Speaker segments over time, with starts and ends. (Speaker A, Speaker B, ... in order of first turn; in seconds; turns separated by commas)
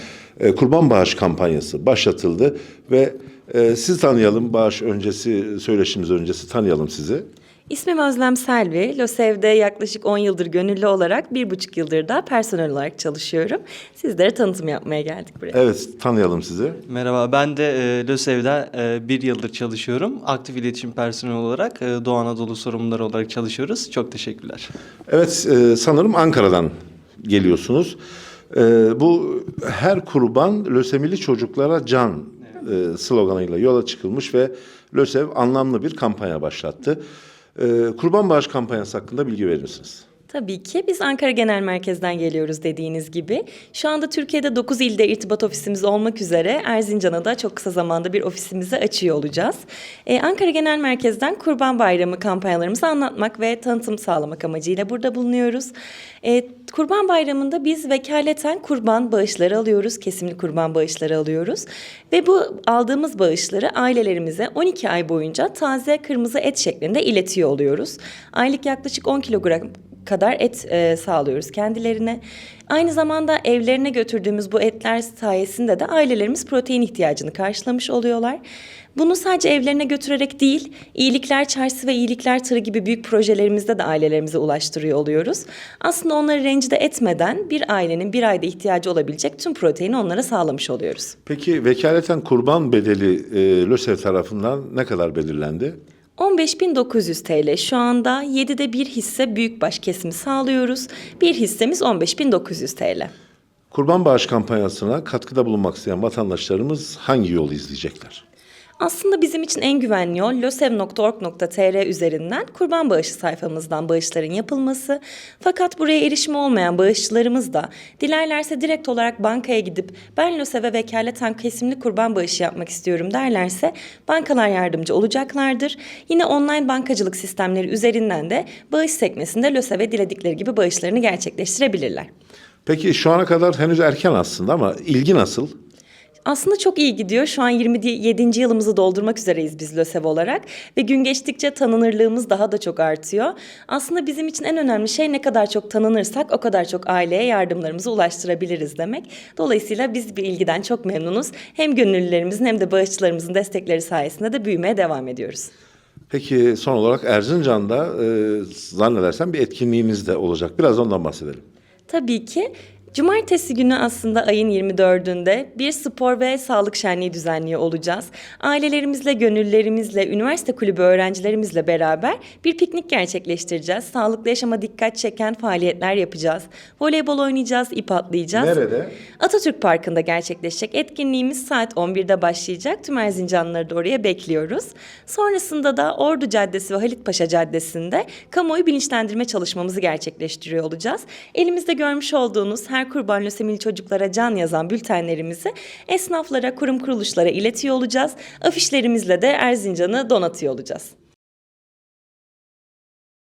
Speaker A: 0.4-7.2, Speaker B: 7.7-15.6, Speaker A: 15.5-16.8, Speaker C: 16.9-24.7, Speaker A: 25.1-28.0, Speaker A: 28.5-37.0, Speaker A: 37.5-40.0, Speaker B: 40.3-55.7, Speaker B: 56.2-78.4, Speaker B: 79.0-91.1, Speaker A: 91.2-95.8, Speaker B: 96.2-103.1, Speaker A: 103.7-108.2, Speaker B: 108.8-132.1, Speaker A: 132.7-135.5, Speaker B: 136.2-155.5, Speaker A: 156.1-161.4, Speaker B: 161.9-178.6, Speaker A: 178.3-179.0, Speaker B: 179.2-200.9